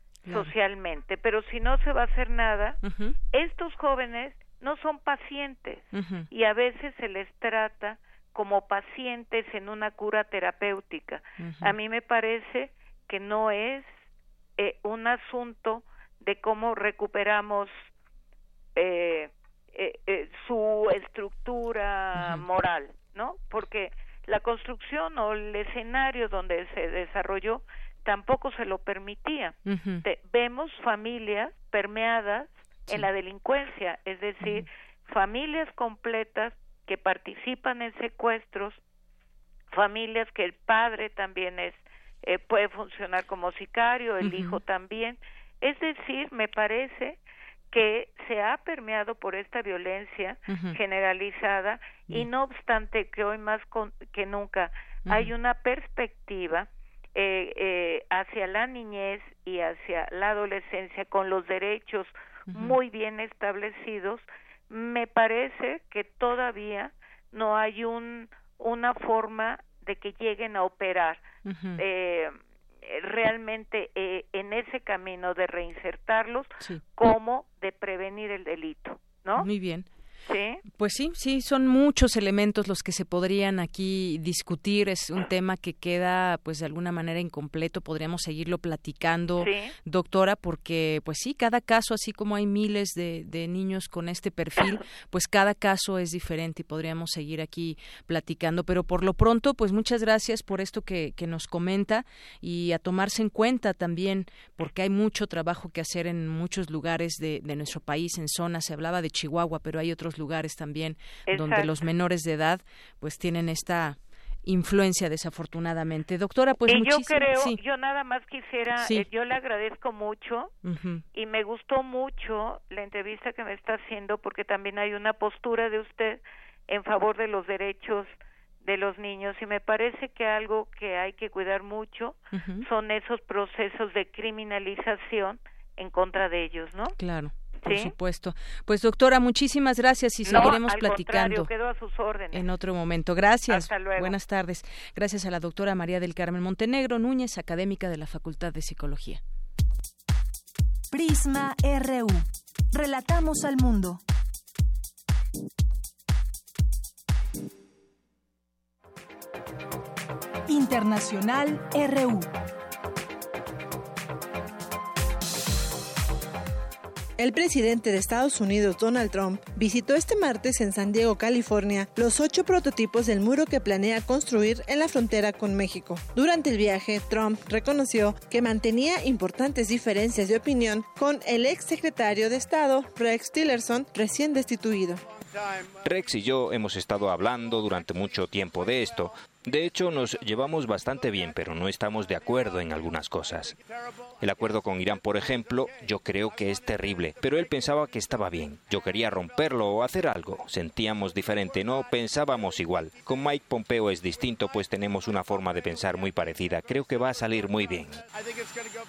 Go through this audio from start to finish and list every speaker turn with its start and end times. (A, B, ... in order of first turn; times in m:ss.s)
0:00.3-0:00.5 A
0:00.3-0:02.8 B
0:02.8-0:03.1 A
0:03.3-0:13.9 B
0:05.9-0:06.3 A
0:11.4-0:11.7 A
0:14.6-0:17.7 B
0:18.8-0:38.8 B
0:22.2-0:22.4 A
0:29.7-0:30.0 A
0:39.7-0:47.2 B
0:44.2-0:44.6 A
0:47.7-1:11.2 B
0:50.5-0:50.8 A
1:02.5-1:02.8 A
1:11.4-1:11.8 A
1:11.8-1:19.5 B
1:19.4-1:19.9 A
1:20.3-1:20.6 B
1:20.7-1:57.6 A
1:29.4-1:29.7 B
1:51.3-1:51.8 B
1:56.7-2:00.5 B
1:58.8-1:59.0 A
2:00.6-2:01.0 A
2:01.1-2:08.1 B
2:08.6-2:17.0 B
2:12.3-2:12.6 A
2:17.0-2:21.5 A
2:17.6-2:17.9 B
2:20.2-2:22.5 B
2:22.3-2:29.2 A
2:23.5-2:24.2 B
2:30.9-2:34.0 C
2:40.5-2:42.3 C
2:47.2-3:05.0 D
3:05.8-3:13.6 E
3:14.2-3:28.0 E